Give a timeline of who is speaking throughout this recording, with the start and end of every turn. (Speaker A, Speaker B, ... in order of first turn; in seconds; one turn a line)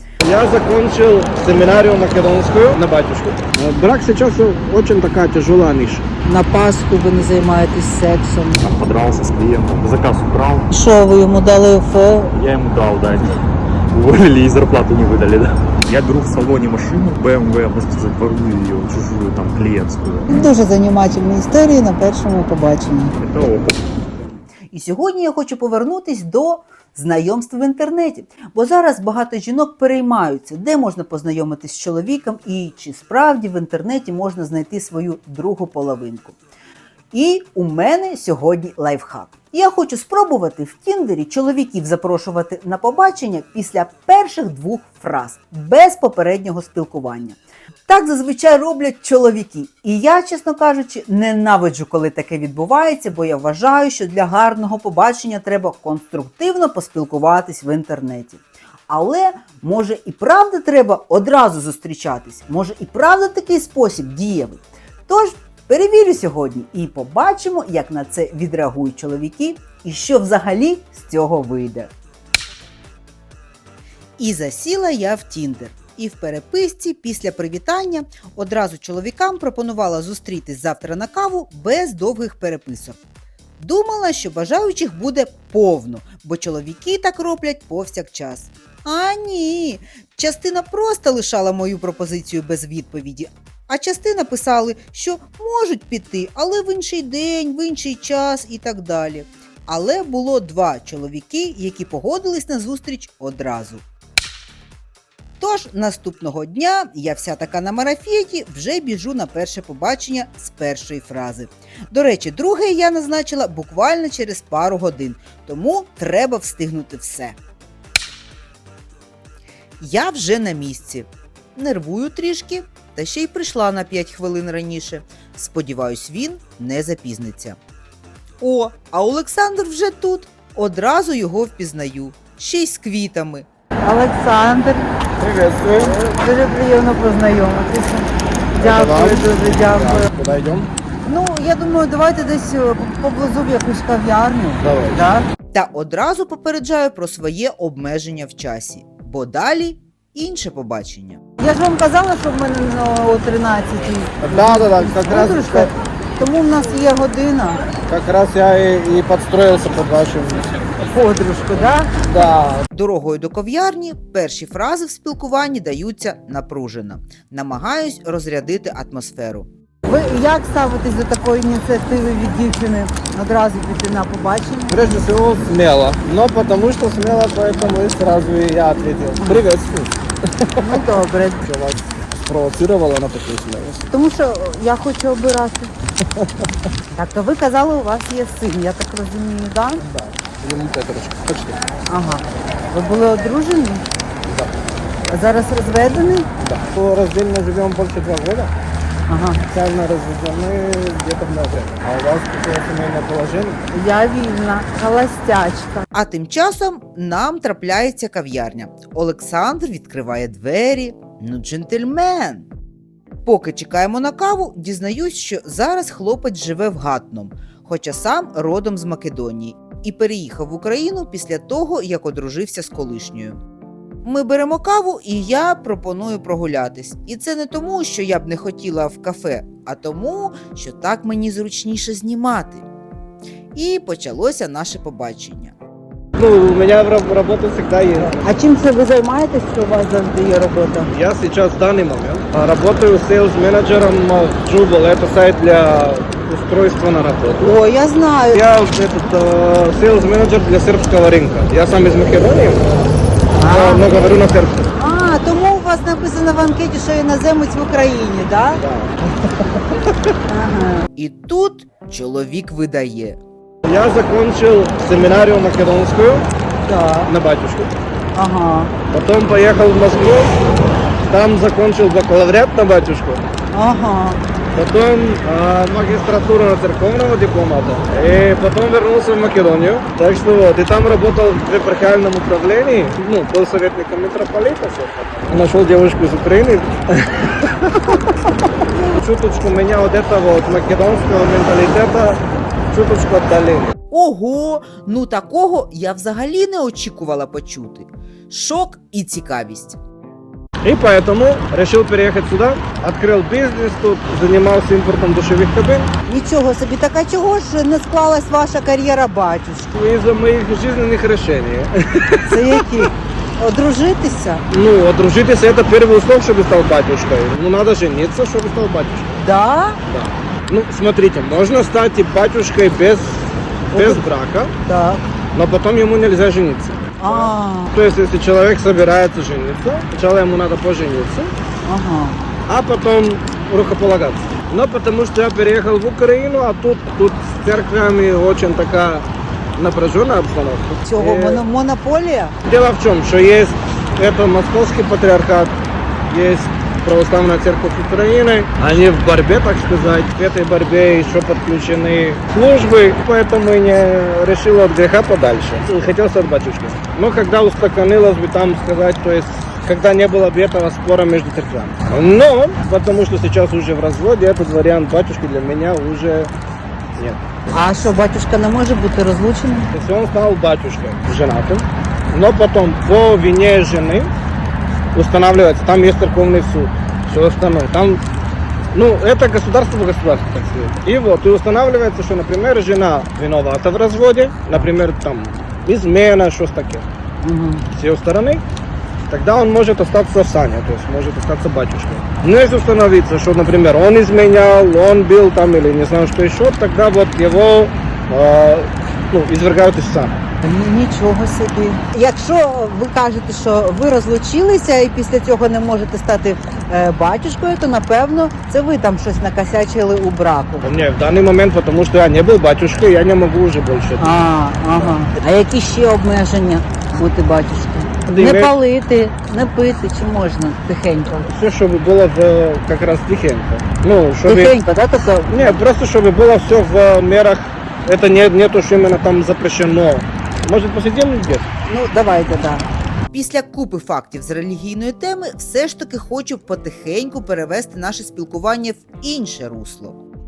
Speaker A: 0.2-6.1
Speaker B: 6.3-8.7
Speaker C: 8.6-10.7
Speaker B: 10.7-12.3
Speaker C: 12.3-20.3
Speaker B: 20.3-23.1
Speaker C: 23.2-23.8
Speaker D: 24.7-36.4
Speaker D: 37.1-71.9
Speaker D: 74.2-83.0
Speaker D: 83.6-103.8
Speaker D: 105.4-117.4
Speaker D: 119.8-127.6
Speaker D: 128.4-133.5
Speaker B: 133.8-134.9
Speaker A: 135.2-136.0
Speaker B: 135.8-140.1
Speaker A: 138.6-140.7
Speaker B: 141.1-145.3
Speaker A: 144.6-145.0
Speaker D: 145.5-151.2
Speaker B: 151.4-157.7
Speaker A: 154.2-155.7
Speaker A: 157.9-160.6
Speaker B: 160.9-161.9
Speaker A: 162.0-162.7
Speaker D: 162.7-169.5
Speaker B: 169.8-174.9
Speaker A: 174.7-180.9
Speaker B: 180.6-181.5
Speaker A: 181.5-183.8
Speaker B: 183.9-185.7
Speaker A: 186.2-186.5
Speaker B: 186.9-189.8
Speaker A: 189.8-191.6
Speaker B: 191.9-193.9
Speaker A: 194.3-194.5
Speaker B: 195.1-196.3
Speaker A: 196.4-198.5
Speaker B: 199.1-199.4
Speaker A: 199.5-203.6
Speaker B: 203.7-205.9
Speaker D: 205.9-212.5
Speaker D: 213.2-223.4
Speaker D: 224.0-232.7
Speaker D: 233.6-235.6
Speaker A: 236.2-238.3
Speaker B: 238.2-240.9
Speaker A: 240.9-247.6
Speaker B: 247.4-248.4
Speaker A: 248.3-252.7
Speaker B: 253.4-254.1
Speaker A: 253.4-254.7
Speaker B: 254.8-258.6
Speaker A: 258.6-259.0
Speaker B: 260.3-260.9
Speaker D: 261.0-263.2
Speaker A: 263.6-266.3
Speaker B: 266.7-267.1
Speaker A: 267.1-267.7
Speaker B: 268.1-268.8
Speaker A: 268.9-270.4
Speaker A: 271.1-273.2
Speaker B: 273.5-274.2
Speaker A: 274.6-287.8
Speaker A: 288.7-292.2
Speaker A: 292.7-293.8
Speaker D: 293.9-299.8
Speaker A: 300.6-305.9
Speaker B: 306.1-309.7
Speaker A: 309.7-312.9
Speaker B: 312.2-314.4
Speaker A: 314.5-319.2
Speaker B: 319.2-319.8
Speaker A: 319.9-324.5
Speaker B: 323.7-324.0
Speaker B: 324.7-325.1
Speaker A: 325.3-331.3
Speaker B: 327.0-327.7
Speaker B: 331.6-332.2
Speaker A: 332.5-339.1
Speaker A: 339.6-341.4
Speaker D: 340.9-342.4
Speaker A: 342.4-345.6
Speaker A: 346.1-366.3
Speaker A: 367.0-367.2
Speaker B: 367.5-369.7
Speaker A: 369.7-374.1
Speaker A: 374.9-378.0
Speaker A: 378.7-386.9
Speaker B: 387.2-387.7
Speaker A: 387.7-388.4
Speaker A: 389.1-400.2
Speaker B: 400.4-410.7
Speaker A: 410.6-414.2
Speaker B: 414.0-421.3
Speaker A: 418.1-418.6
Speaker A: 421.3-424.5
Speaker B: 424.3-425.5
Speaker A: 425.3-431.5
Speaker B: 431.7-432.7
Speaker D: 433.1-440.0